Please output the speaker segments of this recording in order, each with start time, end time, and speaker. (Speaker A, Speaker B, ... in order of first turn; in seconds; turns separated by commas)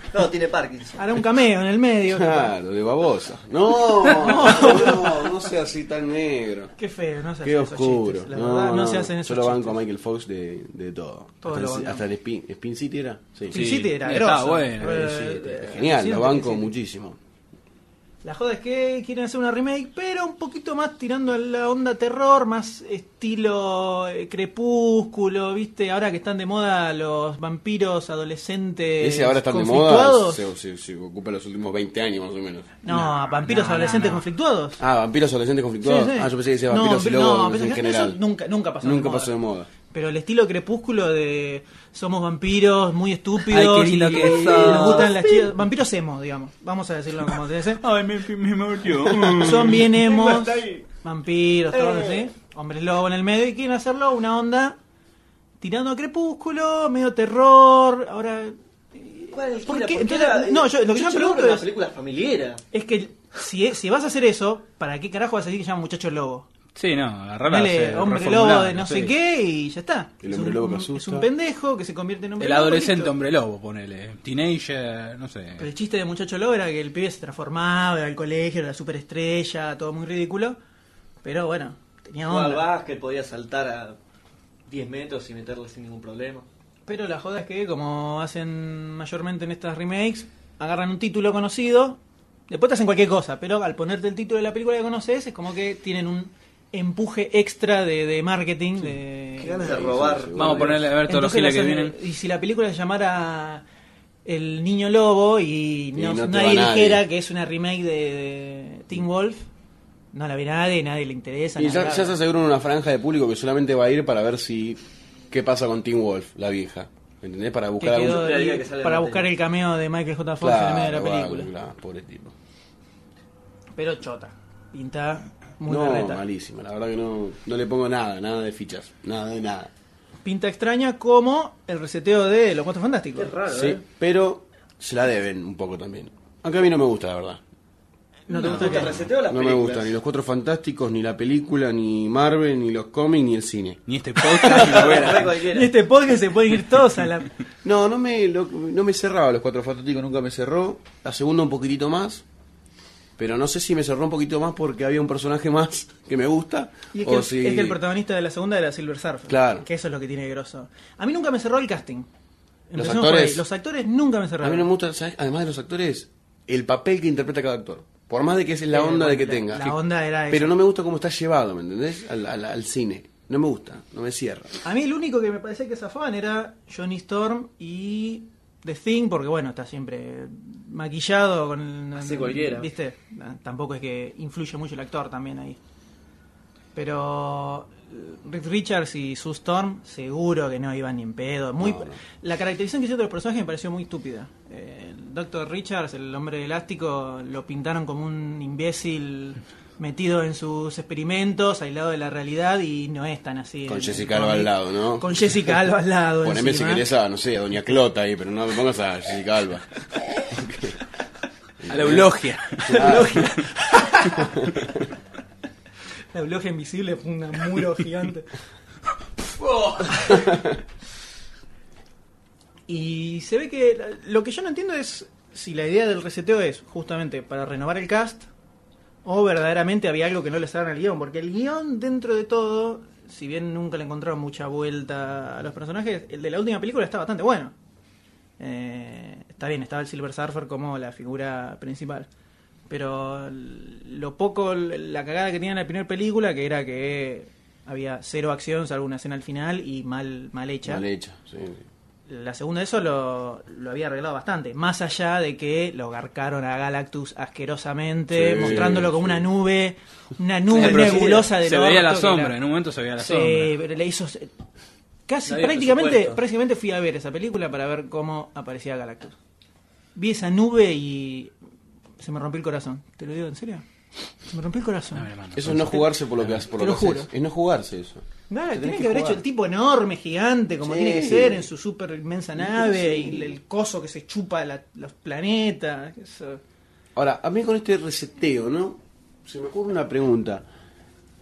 Speaker A: 0.1-1.0, Speaker B: 0.9-2.5, Speaker C: 2.1-6.7, Speaker B: 4.1-5.1, Speaker B: 6.8-9.8, Speaker C: 7.4-13.6, Speaker B: 11.4-12.0, Speaker B: 13.5-16.7, Speaker D: 13.5-15.6, Speaker C: 15.6-17.2, Speaker B: 18.2-30.4, Speaker C: 29.0-32.9, Speaker B: 32.8-34.8, Speaker D: 32.9-34.2, Speaker C: 34.8-38.2, Speaker B: 35.8-39.3, Speaker C: 38.8-39.7, Speaker B: 39.9-47.8, Speaker D: 43.5-45.1, Speaker A: 44.3-45.3, Speaker D: 47.8-49.8, Speaker B: 49.4-54.8, Speaker A: 49.9-50.9, Speaker A: 51.7-52.3, Speaker B: 55.6-61.7, Speaker A: 59.3-62.6, Speaker B: 62.7-66.5, Speaker D: 66.8-69.1, Speaker B: 67.5-73.1, Speaker C: 70.2-71.3, Speaker D: 72.4-75.7, Speaker B: 75.6-80.6, Speaker B: 81.2-82.6, Speaker A: 82.3-84.0, Speaker A: 84.7-86.5, Speaker B: 86.9-99.7, Speaker A: 99.4-100.7, Speaker C: 99.6-100.9, Speaker D: 100.3-101.9, Speaker B: 101.1-103.6, Speaker B: 104.2-109.4, Speaker C: 105.9-107.0, Speaker B: 110.1-112.1, Speaker C: 111.6-114.8, Speaker C: 115.3-118.3, Speaker B: 117.8-121.5, Speaker A: 118.0-119.3, Speaker C: 120.4-122.3, Speaker B: 123.8-126.2, Speaker C: 125.7-129.7, Speaker B: 130.2-133.3, Speaker A: 133.1-133.8, Speaker C: 133.5-137.4, Speaker B: 138.3-138.9, Speaker A: 138.3-139.9, Speaker C: 138.5-143.8, Speaker D: 143.9-145.3, Speaker A: 144.4-145.7, Speaker B: 145.5-147.3, Speaker C: 147.6-152.2, Speaker C: 153.2-157.8, Speaker B: 156.9-162.1, Speaker C: 159.3-159.7, Speaker B: 162.7-164.7, Speaker C: 162.8-163.4, Speaker C: 164.4-169.8, Speaker B: 168.7-170.5, Speaker C: 170.3-174.6, Speaker B: 174.6-185.6, Speaker A: 182.0-182.7, Speaker B: 186.7-206.9, Speaker C: 191.6-192.0, Speaker C: 203.7-205.5, Speaker C: 206.2-209.7, Speaker C: 210.3-210.7, Speaker C: 211.6-213.2, Speaker D: 211.7-213.0, Speaker B: 212.7-214.3, Speaker C: 214.4-214.7, Speaker B: 216.1-218.3, Speaker D: 219.4-220.1, Speaker C: 220.2-220.5, Speaker B: 222.7-228.3, Speaker B: 229.0-237.5, Speaker B: 238.4-242.1, Speaker B: 242.7-250.8, Speaker C: 250.6-251.6, Speaker B: 252.1-262.3, Speaker C: 258.1-259.3, Speaker D: 260.5-263.5, Speaker A: 260.6-261.2, Speaker B: 263.0-264.3, Speaker B: 265.1-269.1, Speaker A: 265.3-266.2, Speaker B: 269.9-271.3, Speaker B: 272.0-273.6, Speaker B: 274.3-275.8, Speaker D: 274.9-276.4, Speaker C: 275.3-279.2, Speaker B: 276.5-277.1, Speaker B: 278.3-286.4, Speaker C: 280.6-281.5, Speaker C: 282.4-283.4, Speaker C: 286.9-290.5